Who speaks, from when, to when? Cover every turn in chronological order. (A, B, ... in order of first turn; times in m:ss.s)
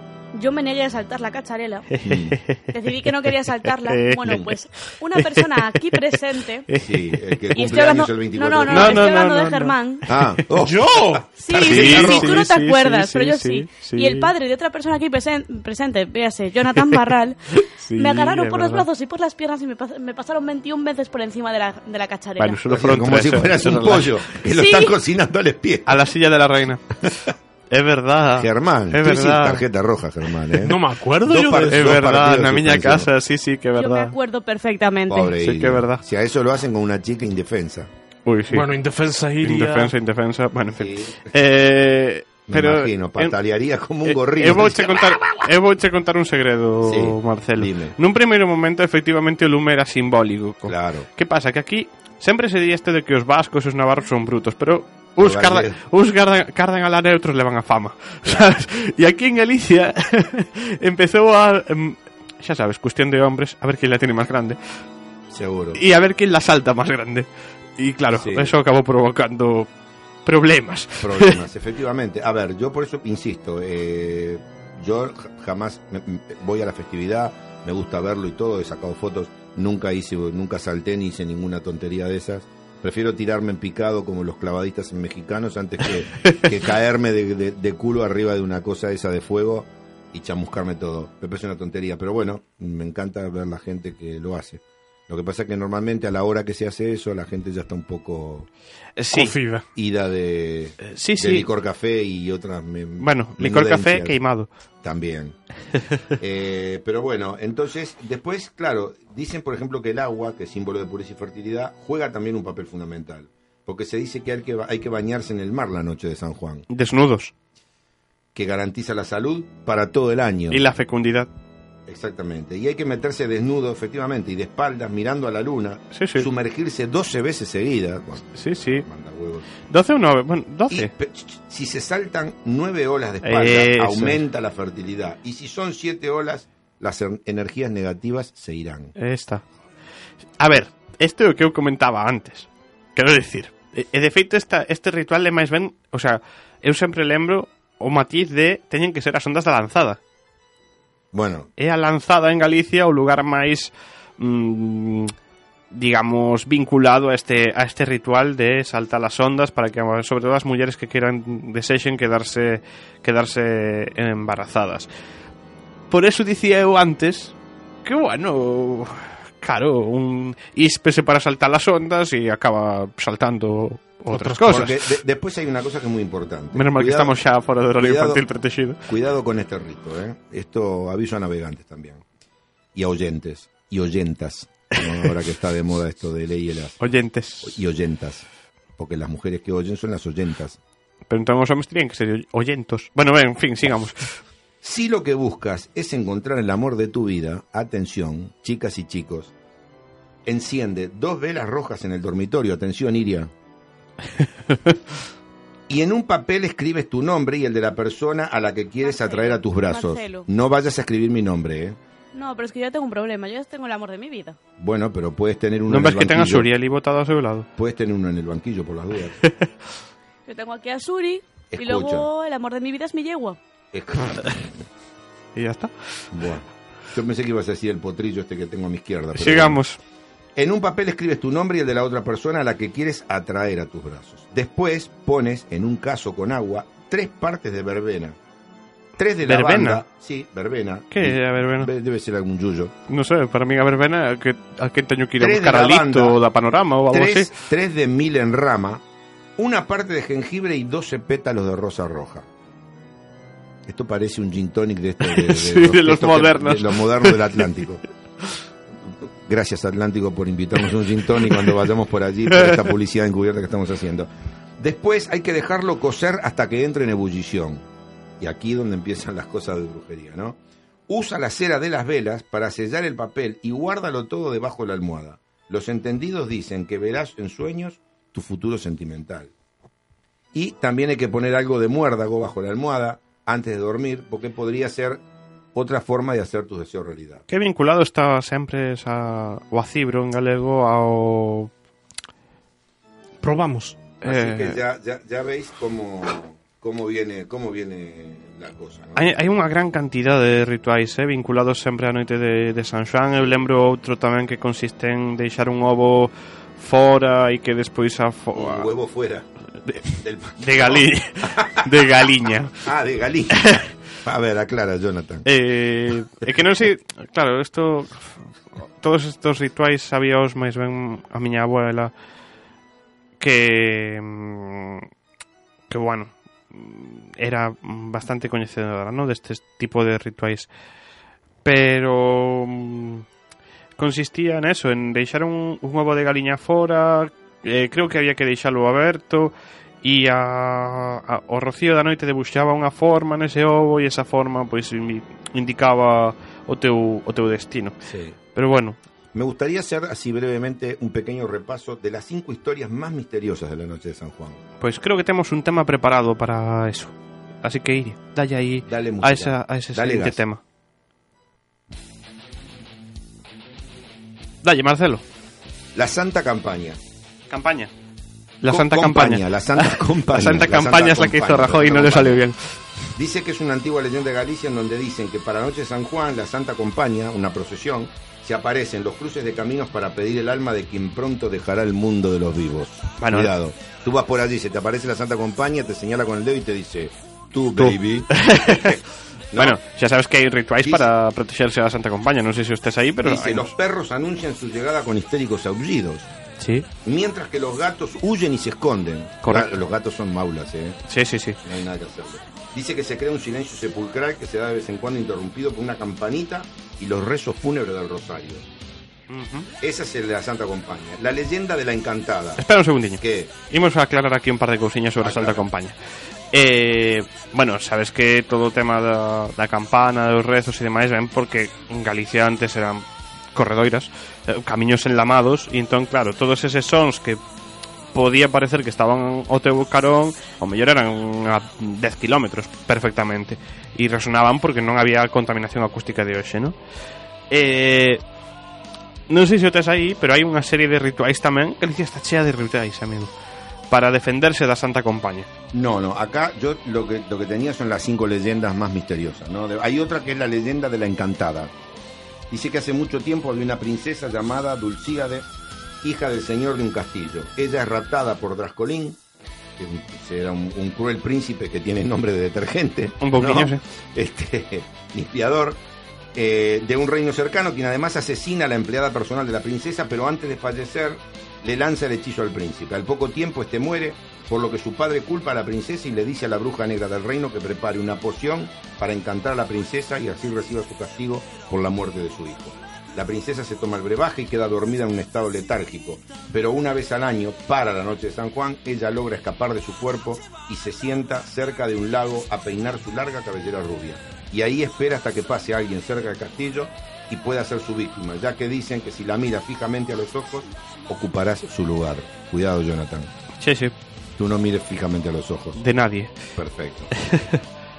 0:00.3-0:01.9 A
0:01.9-0:07.2 B
0:02.0-0:02.4 C
0:02.7-0:06.7 A
0:04.2-0:04.5 C
0:06.8-0:09.1 C
0:07.5-0:10.0 A
0:08.7-0:10.4 B
0:10.1-0:12.5 C
0:10.6-0:11.3 D
0:11.4-0:22.6 A
0:11.5-0:14.3 B
0:16.8-0:18.9 B
0:22.4-0:24.4 B
0:22.7-0:26.0 C
0:24.6-0:24.9 A
0:25.9-0:29.6 B
0:28.4-0:33.1 C
0:30.6-0:32.0 D
0:31.7-0:34.1 B
0:33.8-0:35.4 A
0:35.1-0:37.9 C
0:35.4-0:36.0 B
0:38.3-0:38.7 B
0:38.5-0:39.9 D
0:39.4-0:43.4 B
0:40.8-0:41.3 C
0:42.5-0:45.5 C
0:44.0-1:04.8 B
0:46.8-0:48.0 C
0:50.6-0:51.1 C
0:55.2-0:55.8 C
1:05.3-1:05.8 C
1:05.7-1:09.7 B
1:08.1-1:08.6 C
1:10.3-1:11.4 B
1:11.0-1:38.5 C
1:39.0-1:39.3 B
1:39.1-1:39.6 D
1:39.8-1:44.2 C
1:40.8-1:41.5 B
1:43.0-1:44.5 B
1:44.8-1:45.4 C
1:46.2-1:56.7 C
1:56.7-1:57.3 B
1:58.4-2:00.6 C
2:00.5-2:01.3 B
2:01.9-2:09.5 C
2:05.9-2:06.3 B
2:08.3-2:08.8 B
2:09.7-2:10.9 B
2:10.7-2:18.9 C
2:13.2-2:14.2 B
2:19.0-2:19.4 B
2:20.4-2:30.0 B
2:31.1-2:31.5 C
2:31.6-2:35.1 B
2:35.7-2:44.9 B
2:45.9-2:54.8 B
2:54.1-2:54.7 D
2:54.4-2:57.2 C
2:56.5-2:58.8 B
2:57.8-2:58.3 C
2:58.9-3:02.0 C
3:02.8-3:06.9 C
3:06.8-3:07.6 B
3:07.4-3:10.6 C
3:11.1-3:14.2 B
3:14.6-3:19.3 C
3:20.2-3:23.3 C
3:24.2-3:24.8 B
3:25.7-3:31.8 C
3:28.8-3:30.3 A
3:32.1-3:34.4 A
3:34.6-3:36.5 C
3:35.7-3:37.5 B
3:37.6-3:39.2 C
3:40.3-3:43.4 A
3:41.5-3:42.1 C
3:43.7-3:44.6 C
3:45.4-3:46.0 B
3:46.1-3:49.6 C
3:49.2-3:49.8 B
3:50.4-3:58.2 C
3:59.0-4:02.8 C
3:59.2-3:59.8 B
4:00.9-4:01.7 B
4:02.9-4:07.3 B
4:05.2-4:06.2 C
4:06.9-4:08.8 C
4:09.4-4:12.3 C
4:13.6-4:17.8 C
4:15.0-4:17.4 B
4:18.9-4:27.6 C
4:22.3-4:22.6 B
4:28.2-4:30.4 C
4:30.9-4:39.3 C
4:40.3-4:45.0 C
4:45.5-4:47.2 C
4:47.3-4:51.5 B
4:53.2-4:53.8 D
4:54.0-4:54.6 B
4:54.0-4:59.1 C
4:59.0-5:08.7 B
5:08.4-5:09.3 C
5:09.6-5:12.6 B
5:09.9-5:11.7 C
5:12.6-5:15.3 C
5:15.2-5:18.2 B
5:18.8-5:21.9 B
5:23.2-5:24.9 B
5:25.7-5:30.5 B
5:31.4-5:33.0 B
5:33.8-5:47.8 B
5:47.8-5:48.2 C
5:48.3-5:48.8 B
5:49.1-5:54.4 C
5:54.6-6:00.4 B
5:58.6-6:00.2 C
6:04.4-6:05.0 B
6:05.7-6:06.8 C
6:07.3-6:07.7 B
6:08.4-6:12.6 B
6:08.5-6:12.3 C
6:13.0-6:29.6 C
6:23.0-6:23.3 B
6:27.6-6:28.7 B
6:29.4-6:33.5 B
6:33.0-6:36.1 C
6:36.4-6:36.7 B
6:36.8-6:40.8 C
6:39.2-6:39.5 B
6:40.9-6:41.4 B
6:41.4-6:48.4 C
6:49.1-6:49.5 B
6:49.6-6:52.4 C
6:52.4-6:55.8 B
6:53.0-6:53.3 C
6:55.0-6:55.4 C
6:56.3-7:07.2 B
7:07.9-7:16.6 B
7:17.3-7:18.0 B
7:19.1-7:23.1 B
7:23.7-7:25.3 B
7:25.5-7:31.5 C
7:32.3-7:35.2 C
7:35.8-7:39.0 C
7:39.6-7:45.6 C
7:43.0-7:43.6 B
7:46.1-8:23.1 C
8:23.4-8:23.7 B
8:24.2-8:25.6 C
8:25.6-8:26.2 B
8:26.4-8:26.9 C
8:27.1-8:27.4 B